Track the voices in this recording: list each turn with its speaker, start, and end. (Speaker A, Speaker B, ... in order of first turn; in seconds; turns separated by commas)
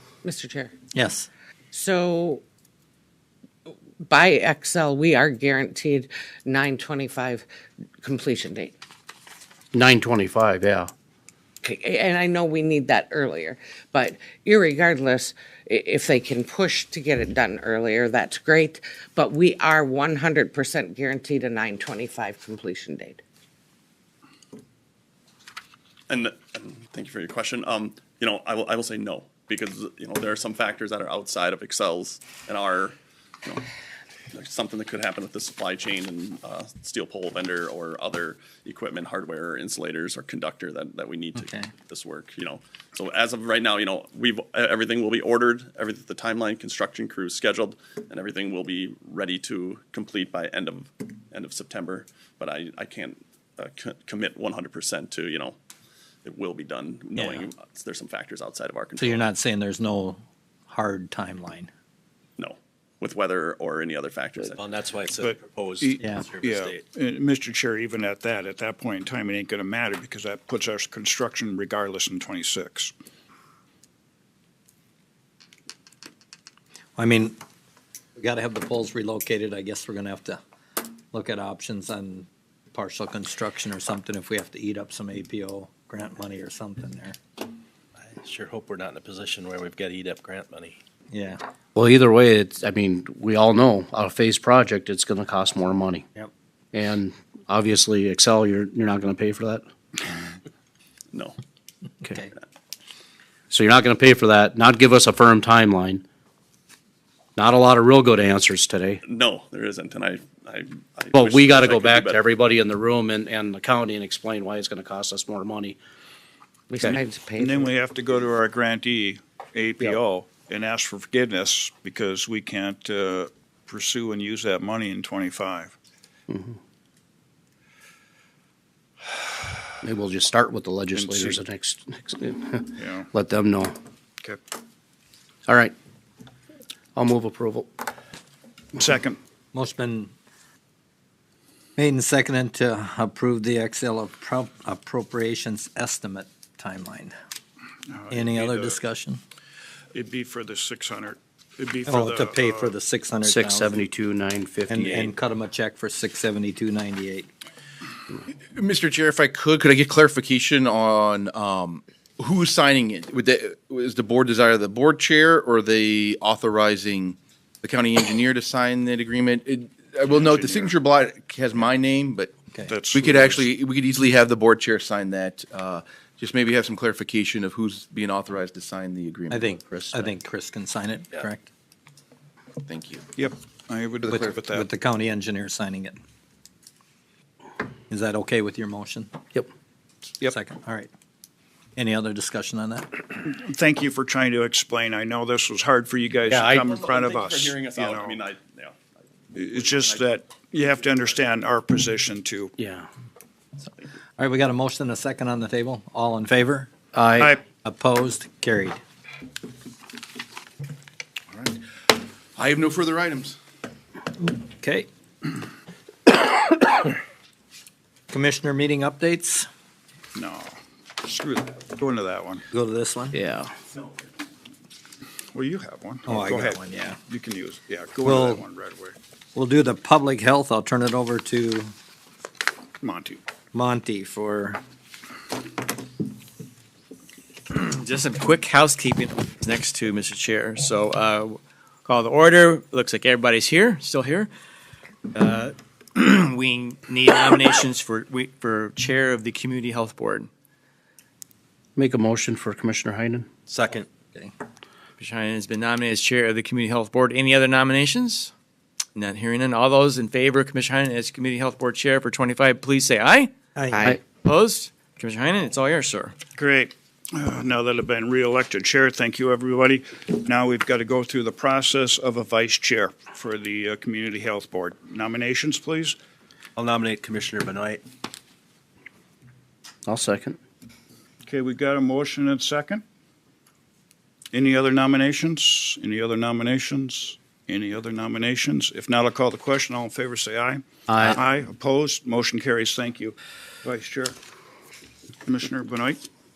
Speaker A: 0.2-0.8, Speaker B: 0.9-1.3, Speaker A: 1.7-2.4, Speaker A: 3.7-7.5, Speaker A: 8.0-8.7, Speaker C: 9.7-10.9, Speaker A: 11.6-23.2, Speaker D: 26.1-33.6, Speaker D: 34.3-55.5, Speaker B: 41.4-41.7, Speaker D: 56.2-59.3, Speaker B: 57.1-57.5, Speaker B: 59.0-61.7, Speaker D: 62.4-64.7, Speaker E: 64.5-66.9, Speaker F: 65.8-72.9, Speaker B: 66.0-66.3, Speaker B: 77.0-77.4, Speaker B: 78.2-80.4, Speaker B: 81.1-87.2, Speaker E: 88.0-90.8, Speaker B: 91.1-91.4, Speaker C: 91.8-96.0, Speaker C: 96.7-99.6, Speaker D: 101.1-101.4, Speaker C: 103.5-106.0, Speaker C: 107.4-109.0, Speaker D: 109.0-112.3, Speaker C: 111.1-115.8, Speaker A: 116.7-117.7, Speaker F: 117.4-125.7, Speaker C: 126.3-126.5, Speaker C: 129.8-133.8, Speaker F: 130.9-131.3, Speaker F: 132.8-133.1, Speaker C: 135.5-135.7, Speaker C: 136.9-137.7, Speaker F: 138.8-139.2, Speaker B: 139.5-140.1, Speaker B: 141.8-147.1, Speaker F: 147.9-148.8, Speaker B: 148.1-149.2, Speaker F: 149.9-152.7, Speaker B: 151.8-153.8, Speaker C: 153.2-155.1, Speaker B: 154.7-157.3, Speaker G: 158.5-172.3, Speaker F: 170.0-170.7, Speaker F: 172.7-173.5, Speaker G: 172.9-180.1, Speaker B: 179.3-181.5, Speaker G: 182.6-183.0, Speaker F: 183.2-184.7, Speaker B: 184.0-186.0, Speaker B: 187.9-189.2, Speaker B: 190.2-190.9, Speaker B: 191.8-193.1, Speaker F: 193.3-198.2, Speaker C: 196.3-196.7, Speaker D: 196.3-198.8, Speaker D: 199.3-201.3, Speaker F: 199.3-202.5, Speaker C: 202.6-202.9, Speaker B: 204.2-206.7, Speaker C: 206.9-207.4, Speaker B: 207.5-208.8, Speaker G: 212.3-213.4, Speaker B: 214.4-214.9, Speaker B: 218.1-219.5, Speaker F: 220.1-222.4, Speaker B: 222.5-223.2, Speaker C: 223.1-223.5, Speaker F: 225.3-228.9, Speaker B: 226.1-227.0, Speaker B: 228.0-228.4, Speaker B: 229.3-231.7, Speaker F: 232.8-233.2, Speaker B: 233.5-234.6, Speaker H: 237.5-244.3, Speaker H: 245.1-250.3, Speaker C: 251.8-253.3, Speaker B: 253.5-254.3, Speaker H: 255.0-258.3, Speaker H: 258.9-263.3, Speaker B: 263.6-263.9, Speaker H: 263.9-266.1, Speaker F: 266.3-276.0, Speaker E: 276.6-277.8, Speaker C: 279.9-280.4, Speaker F: 281.2-282.8, Speaker F: 284.3-294.1, Speaker C: 290.9-291.2, Speaker F: 295.2-296.0